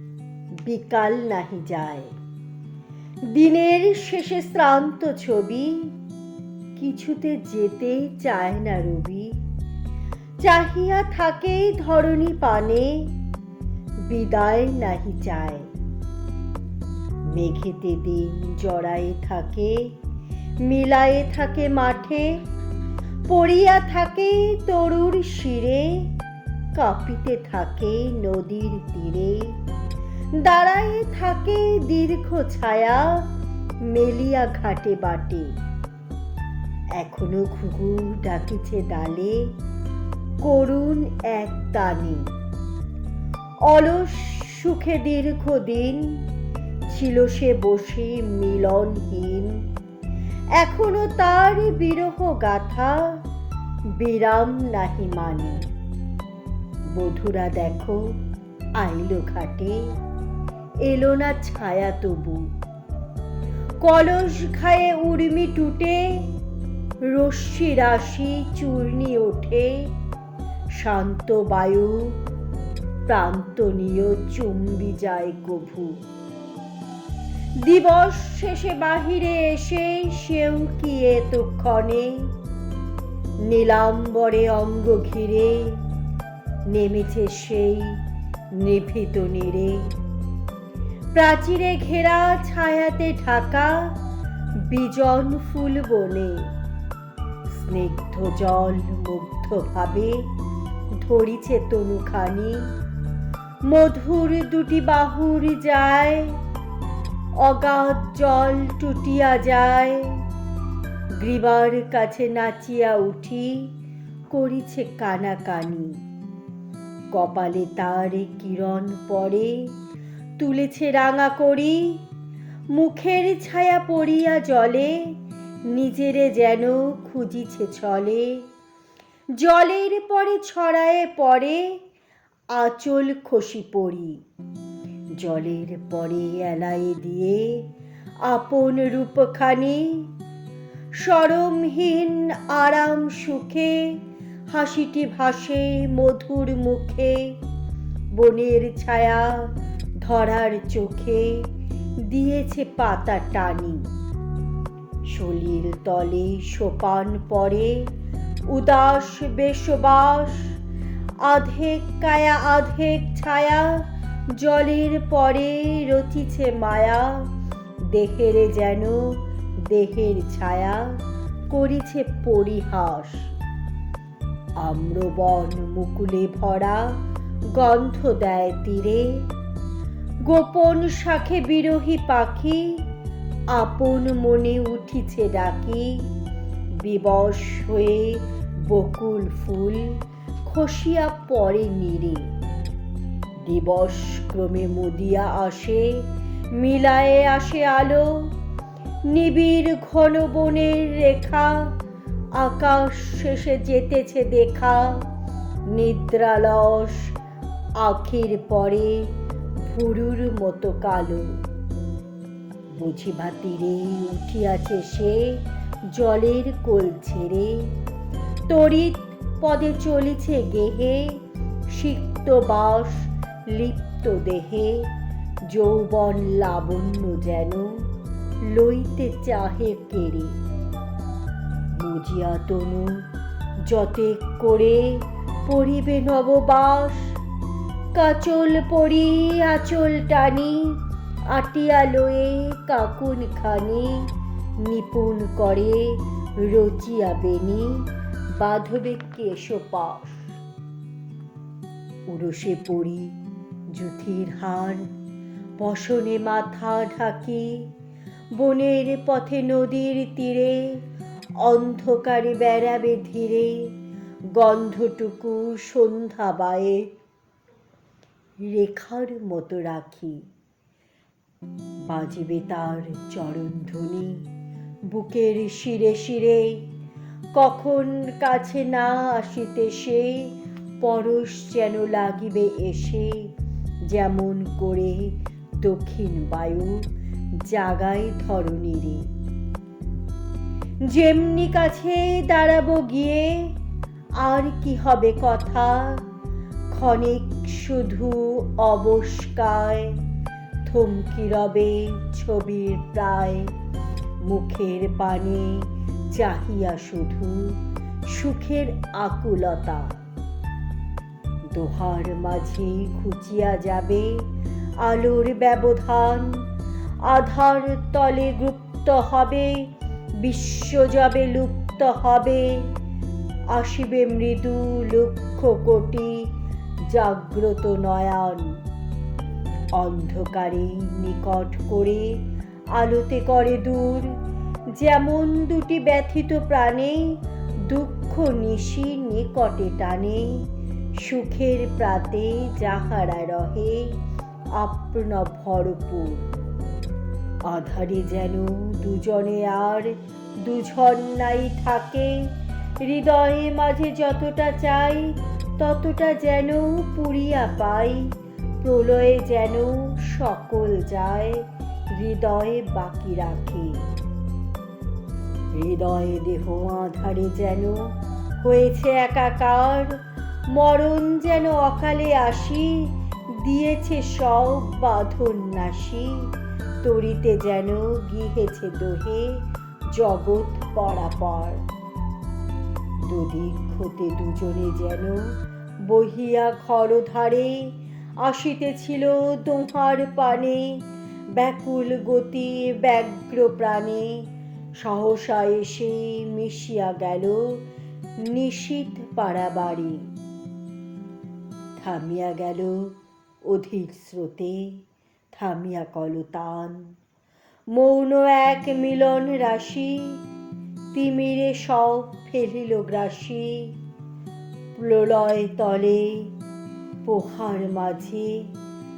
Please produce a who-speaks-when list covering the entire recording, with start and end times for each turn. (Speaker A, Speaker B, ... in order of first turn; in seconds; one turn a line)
Speaker A: 0.6-2.1
Speaker A: 3.3-5.9
Speaker A: 6.8-9.3
Speaker A: 10.4-13.1
Speaker A: 14.1-15.7
Speaker A: 17.3-19.9
Speaker A: 20.6-22.4
Speaker A: 23.3-26.1
Speaker A: 26.7-29.6
Speaker A: 30.3-33.2
Speaker A: 33.9-35.5
Speaker A: 37.0-39.5
Speaker A: 40.4-42.3
Speaker A: 43.6-46.2
Speaker A: 46.9-49.5
Speaker A: 50.6-53.1
Speaker A: 54.0-55.6
Speaker A: 56.9-58.1
Speaker A: 58.8-59.8
Speaker A: 60.8-62.5
Speaker A: 63.8-66.2
Speaker A: 67.1-69.9
Speaker A: 70.8-72.2
Speaker A: 73.1-76.0
Speaker A: 77.6-82.3
Speaker A: 83.4-85.8
Speaker A: 86.7-88.0
Speaker A: 88.6-89.8
Speaker A: 91.1-93.9
Speaker A: 94.7-96.5
Speaker A: 97.5-100.2
Speaker A: 101.0-102.7
Speaker A: 103.7-106.3
Speaker A: 107.4-110.2
Speaker A: 111.2-113.7
Speaker A: 114.3-116.0
Speaker A: 117.1-119.7
Speaker A: 120.4-122.0
Speaker A: 122.7-125.1
Speaker A: 125.7-128.4
Speaker A: 129.4-131.8
Speaker A: 132.5-134.2
Speaker A: 135.2-137.6
Speaker A: 138.2-140.1
Speaker A: 141.0-144.0
Speaker A: 144.5-147.3
Speaker A: 148.1-149.4
Speaker A: 150.0-151.4
Speaker A: 152.1-153.9
Speaker A: 155.1-157.9
Speaker A: 158.5-160.6
Speaker A: 161.2-163.8
Speaker A: 164.4-167.2
Speaker A: 167.9-170.9
Speaker A: 171.5-173.3
Speaker A: 174.6-176.9
Speaker A: 177.5-179.2
Speaker A: 180.3-182.8
Speaker A: 183.5-186.1
Speaker A: 186.8-192.3
Speaker A: 193.4-196.0
Speaker A: 196.5-198.3
Speaker A: 199.1-201.7
Speaker A: 202.3-205.0
Speaker A: 205.7-207.1
Speaker A: 207.8-209.1
Speaker A: 209.6-211.4
Speaker A: 212.8-215.4
Speaker A: 215.9-217.7
Speaker A: 218.5-221.2
Speaker A: 221.7-224.9
Speaker A: 225.5-227.8
Speaker A: 228.4-230.3
Speaker A: 231.8-233.1
Speaker A: 233.7-237.2
Speaker A: 237.9-240.8
Speaker A: 241.3-244.1
Speaker A: 244.6-250.2
Speaker A: 252.1-253.1
Speaker A: 253.7-254.9
Speaker A: 255.6-257.6
Speaker A: 258.3-260.8
Speaker A: 261.4-263.7
Speaker A: 264.3-266.9
Speaker A: 268.5-270.2
Speaker A: 271.9-274.2
Speaker A: 274.9-276.6
Speaker A: 277.3-283.3
Speaker A: 283.9-286.8
Speaker A: 287.4-289.1
Speaker A: 290.9-293.5
Speaker A: 294.2-296.0
Speaker A: 296.7-300.0
Speaker A: 300.6-303.5
Speaker A: 304.2-307.6
Speaker A: 308.1-310.0
Speaker A: 311.5-314.2
Speaker A: 314.8-316.4
Speaker A: 317.0-319.7
Speaker A: 320.2-322.7
Speaker A: 323.5-326.2
Speaker A: 326.9-328.5
Speaker A: 329.7-332.1
Speaker A: 332.7-334.1
Speaker A: 334.7-337.1
Speaker A: 337.7-340.4
Speaker A: 341.0-343.9
Speaker A: 344.6-346.2
Speaker A: 347.5-352.3
Speaker A: 352.8-363.8
Speaker A: 365.5-370.0
Speaker A: 370.5-376.3
Speaker A: 376.8-381.6
Speaker A: 383.1-385.3
Speaker A: 385.9-394.2
Speaker A: 394.8-397.6
Speaker A: 398.3-400.1
Speaker A: 401.8-402.9
Speaker A: 403.4-404.8
Speaker A: 405.3-406.9
Speaker A: 407.7-410.2
Speaker A: 410.9-413.7
Speaker A: 414.8-416.3
Speaker A: 417.0-418.5